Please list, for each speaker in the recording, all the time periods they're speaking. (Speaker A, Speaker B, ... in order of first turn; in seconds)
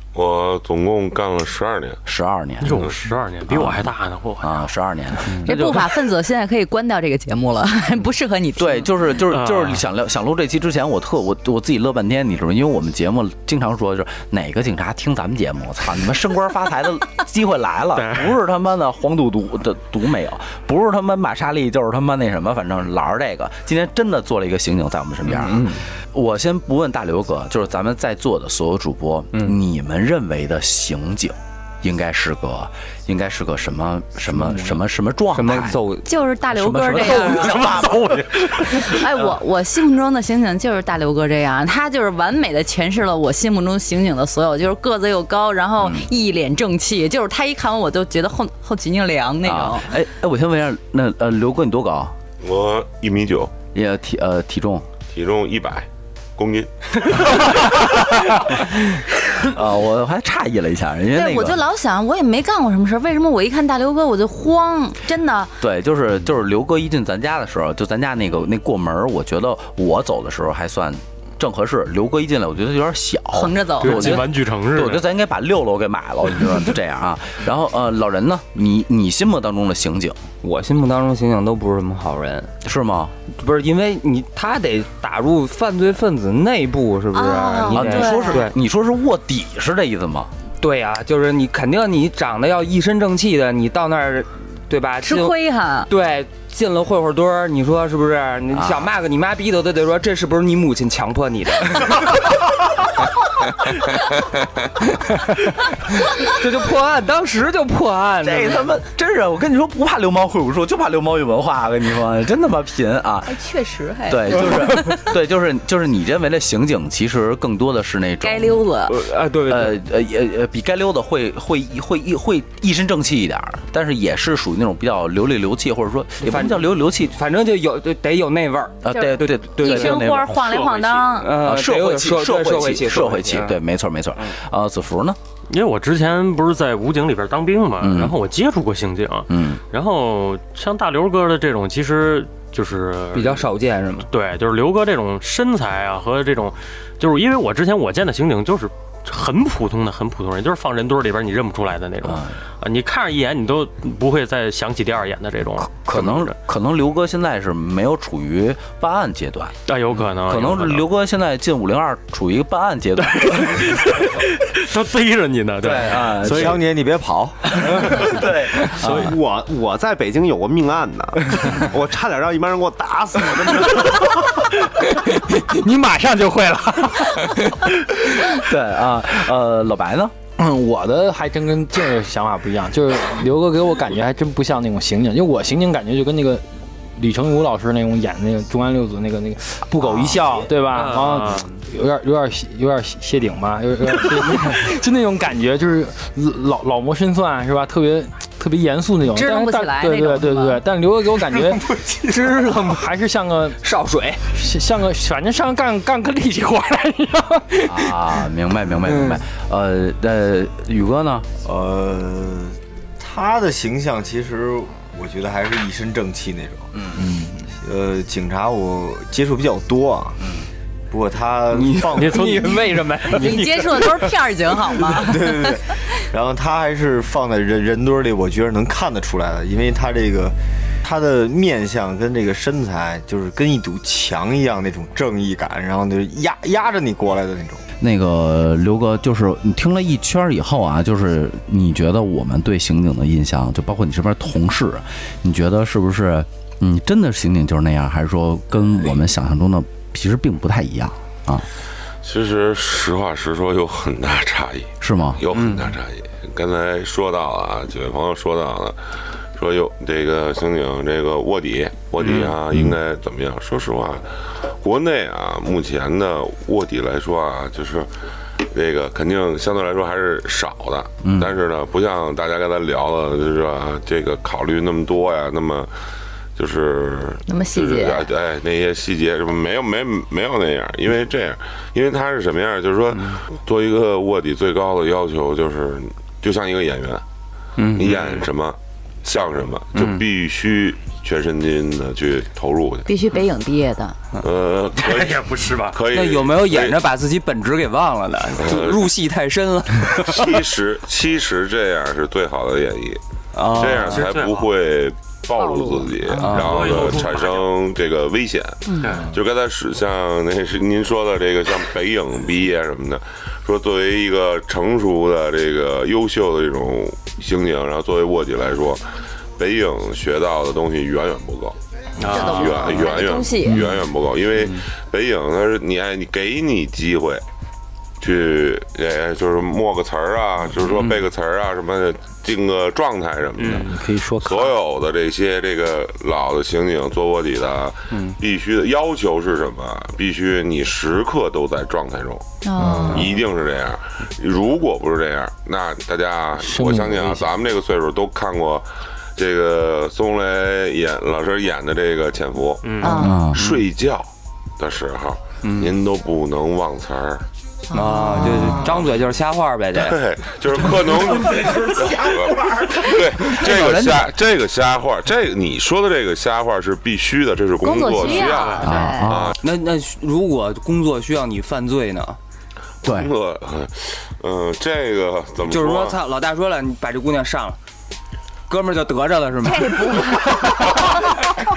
Speaker A: 0.1-2.0, 52.4-53.5, 55.1-57.6, 252.0-258.8, 259.3-267.9, 268.4-275.7, 276.4-287.0, 287.7-292.9, 294.2-296.8, 298.4-298.9, 300.0-318.8, 319.4-321.6, 322.1-327.2, 328.0-342.2, 342.8-357.3, 358.6-358.9, 359.8-369.4, 372.8-376.0
Speaker B: 2.0-2.9, 3.5-6.0, 8.6-35.8, 36.5-38.1, 45.8-46.1, 49.4-52.1, 53.7-54.9, 59.5-61.6, 65.6-80.2, 82.6-83.1, 87.7-90.3, 98.5-98.9, 108.2-113.4, 114.0-118.7, 119.5-127.2, 128.8-130.4, 131.3-135.2, 137.8-138.2, 139.3-139.6, 152.0-152.4, 155.6-159.5, 160.3-163.8, 165.6-166.6, 167.6-169.1, 178.0-180.1, 207.7-211.3, 216.8-217.0, 237.8-251.5, 254.8-255.2, 271.0-271.3, 352.8-353.4, 358.2-358.6, 361.8-364.1, 368.6-369.4, 372.8-373.1, 380.4-380.9
Speaker C: 2.6-4.7, 9.3-9.8, 17.9-18.4, 37.3-38.8, 73.8-75.1, 130.3-131.2, 135.5-143.5, 144.1-156.3, 159.7-160.9, 163.1-166.6, 168.8-169.1, 190.7-191.5, 222.0-222.8, 287.9-288.3, 294.8-295.8, 303.8-304.5, 306.3-307.5, 308.8-309.1, 322.0-322.8, 333.4-333.7, 352.6-352.9, 368.0-368.9
Speaker D: 5.5-8.9, 36.0-37.8, 38.7-49.9, 61.1-65.5, 73.3-74.2, 87.1-88.5, 95.0-95.9, 113.2-115.0, 118.2-119.0, 128.9-131.3, 199.0-200.6, 223.1-225.7, 277.3-278.1, 292.9-293.9, 305.4-306.4, 308.6-308.9, 322.1-323.6, 342.4-343.1, 352.8-353.2, 357.7-358.6, 367.6-369.1, 379.4-381.1
Speaker E: 25.3-25.8, 35.3-36.1, 80.4-82.5, 83.3-88.5, 90.6-95.4, 95.9-102.3, 106.2-108.7, 118.9-119.8, 126.2-130.0, 131.2-133.6, 143.1-144.1, 203.6-204.2, 208.8-209.2, 221.5-223.9, 255.3-255.7, 282.9-283.2, 287.6-287.9, 289.7-290.0, 295.9-300.4, 303.3-304.1, 306.2-306.9, 330.6-331.0, 337.9-338.2, 355.4-355.8, 357.7-360.0, 369.4-372.2, 375.4-377.6, 378.5-380.2
Speaker F: 166.3-167.8, 211.4-216.7, 217.6-220.4, 220.9-222.7, 224.9-237.6
Speaker G: 168.8-174.0
Speaker H: 174.9-177.6, 180.4-203.6, 204.3-208.3, 217.0-217.5, 333.5-334.6, 342.6-343.1, 346.4-347.3